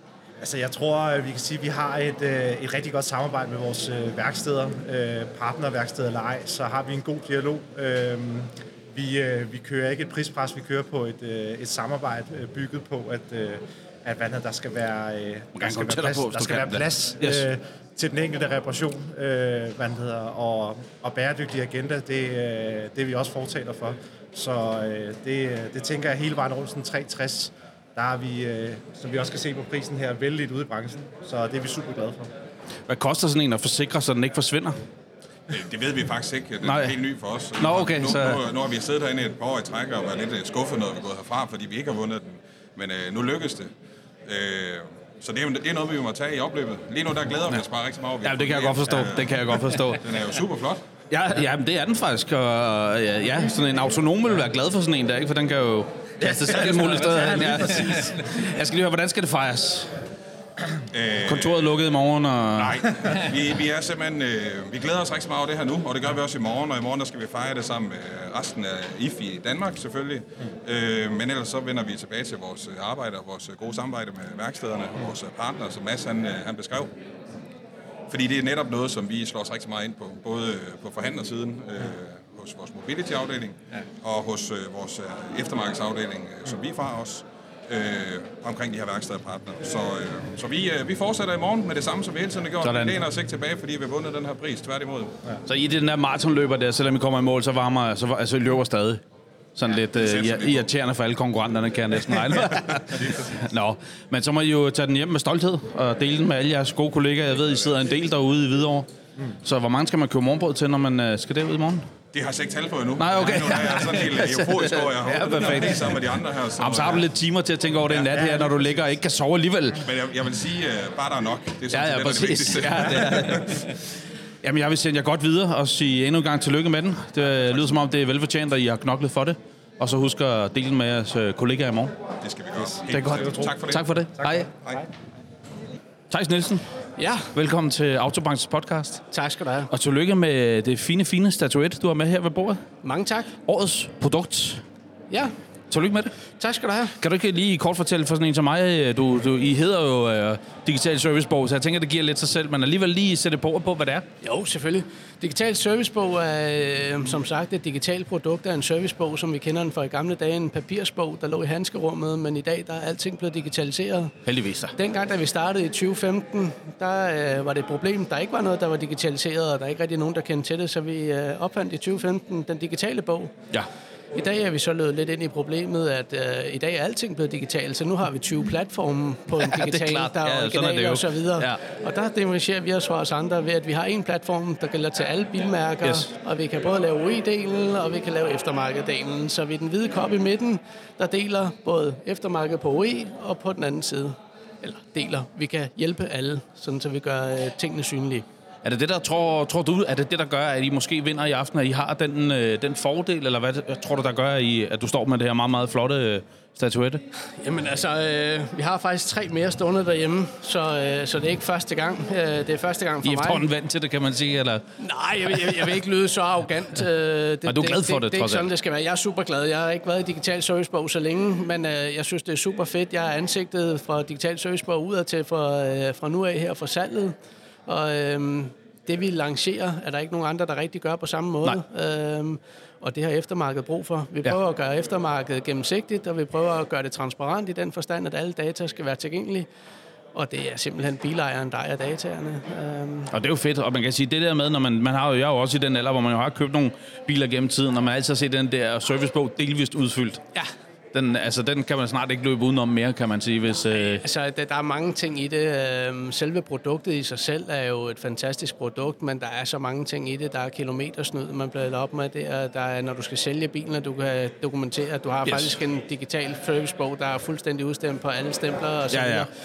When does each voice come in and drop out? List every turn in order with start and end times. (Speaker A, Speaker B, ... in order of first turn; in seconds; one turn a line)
Speaker A: 0.4-32.3
Speaker B: 15.6-17.5
Speaker B: 32.9-34.8
Speaker C: 35.5-43.7
Speaker B: 36.6-38.5
Speaker C: 44.3-49.2
Speaker B: 48.2-50.0
Speaker C: 50.0-50.8
Speaker B: 51.1-59.9
Speaker C: 60.9-61.4
Speaker B: 61.2-63.1
Speaker C: 62.7-76.9
Speaker C: 78.1-95.1
Speaker B: 92.6-93.0
Speaker B: 95.5-99.0
Speaker B: 99.5-108.9
Speaker C: 100.1-100.5
Speaker B: 109.4-111.8
Speaker C: 112.1-117.0
Speaker B: 113.0-116.0
Speaker B: 116.6-119.8
Speaker C: 119.9-122.9
Speaker B: 121.7-123.7
Speaker B: 124.4-131.9
Speaker C: 132.2-133.8
Speaker B: 132.9-134.5
Speaker B: 136.1-136.6
Speaker D: 137.0-137.3
Speaker B: 137.3-139.0
Speaker D: 139.1-139.7
Speaker B: 139.7-142.6
Speaker D: 142.8-143.3
Speaker B: 143.5-144.6
Speaker B: 145.7-146.1
Speaker D: 146.4-146.9
Speaker B: 147.0-154.0
Speaker D: 154.2-164.1
Speaker B: 164.2-164.7
Speaker D: 164.8-173.3
Speaker D: 174.2-198.2
Speaker B: 179.4-181.6
Speaker B: 185.8-186.1
Speaker B: 198.6-207.0
Speaker D: 207.4-213.4
Speaker B: 213.0-214.6
Speaker D: 214.8-227.1
Speaker B: 215.3-215.6
Speaker B: 217.4-218.5
Speaker D: 227.7-239.5
Speaker D: 240.1-243.1
Speaker B: 243.1-250.2
Speaker B: 250.9-254.0
Speaker D: 253.8-269.3
Speaker B: 265.2-265.6
Speaker B: 268.9-269.3